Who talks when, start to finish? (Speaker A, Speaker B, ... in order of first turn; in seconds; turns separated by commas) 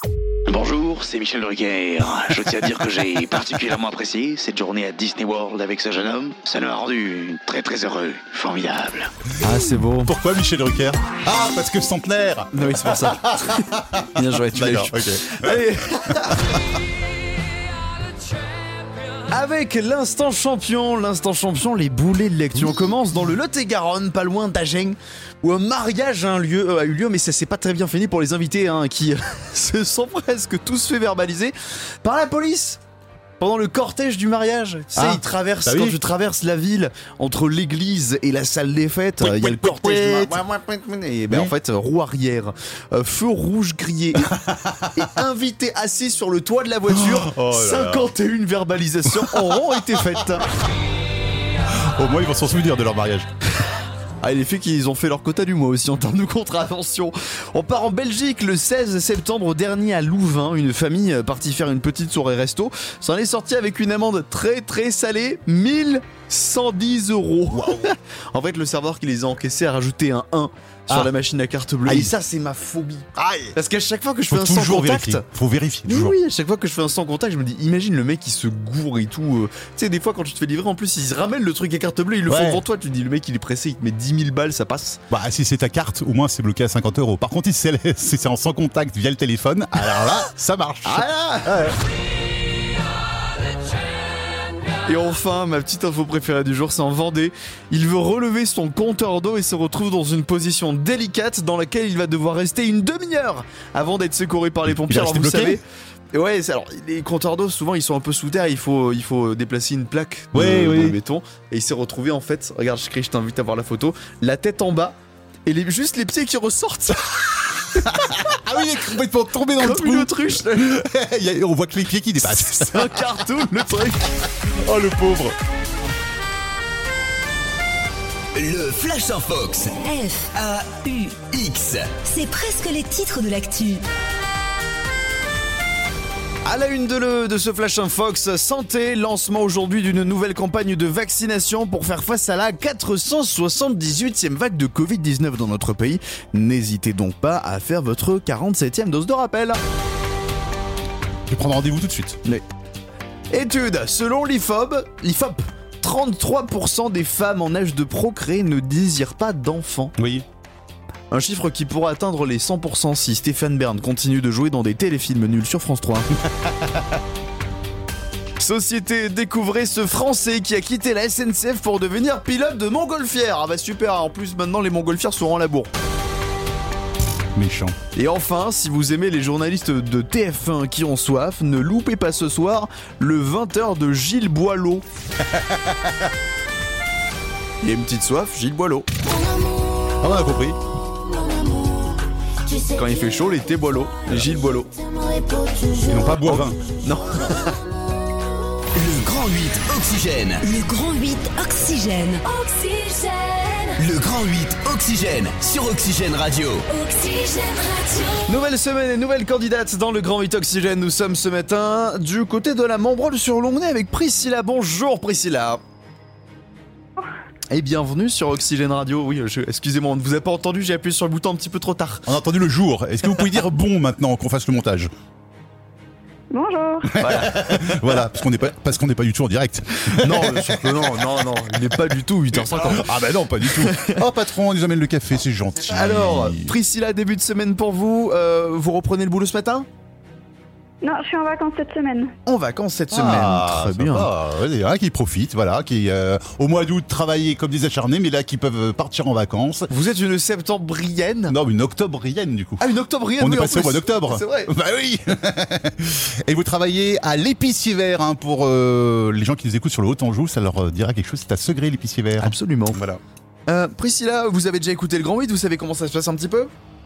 Speaker A: 0.5-9.1, Speaker B: 9.4-10.1, Speaker C: 10.0-16.6, Speaker B: 12.5-16.4, Speaker B: 19.3-32.8, Speaker B: 33.4-44.3, Speaker C: 34.9-36.0, Speaker C: 39.2-40.4, Speaker C: 44.2-45.0, Speaker B: 44.9-50.5, Speaker C: 46.9-48.1, Speaker C: 49.1-50.0, Speaker C: 51.7-53.3, Speaker B: 54.2-75.2, Speaker C: 67.5-67.9, Speaker C: 71.8-72.1, Speaker C: 73.1-73.5, Speaker C: 74.3-76.2, Speaker B: 75.8-85.0, Speaker C: 82.3-82.6, Speaker C: 85.1-91.8, Speaker B: 90.8-91.7, Speaker B: 94.8-117.1, Speaker C: 104.7-105.6, Speaker C: 110.3-111.0, Speaker C: 117.7-123.0, Speaker B: 119.6-120.8, Speaker B: 122.3-124.2, Speaker C: 124.5-125.3, Speaker D: 128.3-129.8, Speaker E: 129.8-130.3, Speaker D: 130.3-132.0, Speaker E: 132.0-133.8, Speaker B: 136.4-149.6, Speaker C: 151.3-152.2, Speaker B: 153.3-159.9, Speaker C: 160.0-160.2, Speaker B: 161.1-166.1, Speaker C: 166.3-166.8, Speaker B: 168.4-175.7, Speaker C: 177.3-177.8, Speaker B: 177.9-184.8, Speaker C: 185.2-186.0, Speaker B: 187.6-188.9, Speaker C: 190.0-190.6, Speaker B: 192.7-194.7, Speaker C: 195.8-196.6, Speaker B: 196.2-197.6, Speaker D: 198.7-200.4, Speaker E: 200.4-203.7, Speaker D: 203.8-206.7, Speaker E: 206.7-208.2, Speaker B: 208.2-215.6, Speaker B: 217.5-222.1, Speaker C: 222.1-224.9, Speaker F: 226.3-227.0, Speaker C: 226.9-231.2, Speaker B: 227.0-227.9, Speaker B: 229.9-234.0, Speaker C: 232.3-236.5, Speaker B: 235.7-239.7, Speaker F: 240.8-242.1, Speaker B: 242.2-244.1, Speaker C: 242.9-249.7, Speaker B: 249.7-251.3, Speaker C: 251.3-252.6, Speaker B: 252.6-254.5, Speaker C: 253.2-263.0, Speaker B: 262.2-262.8, Speaker B: 263.5-266.5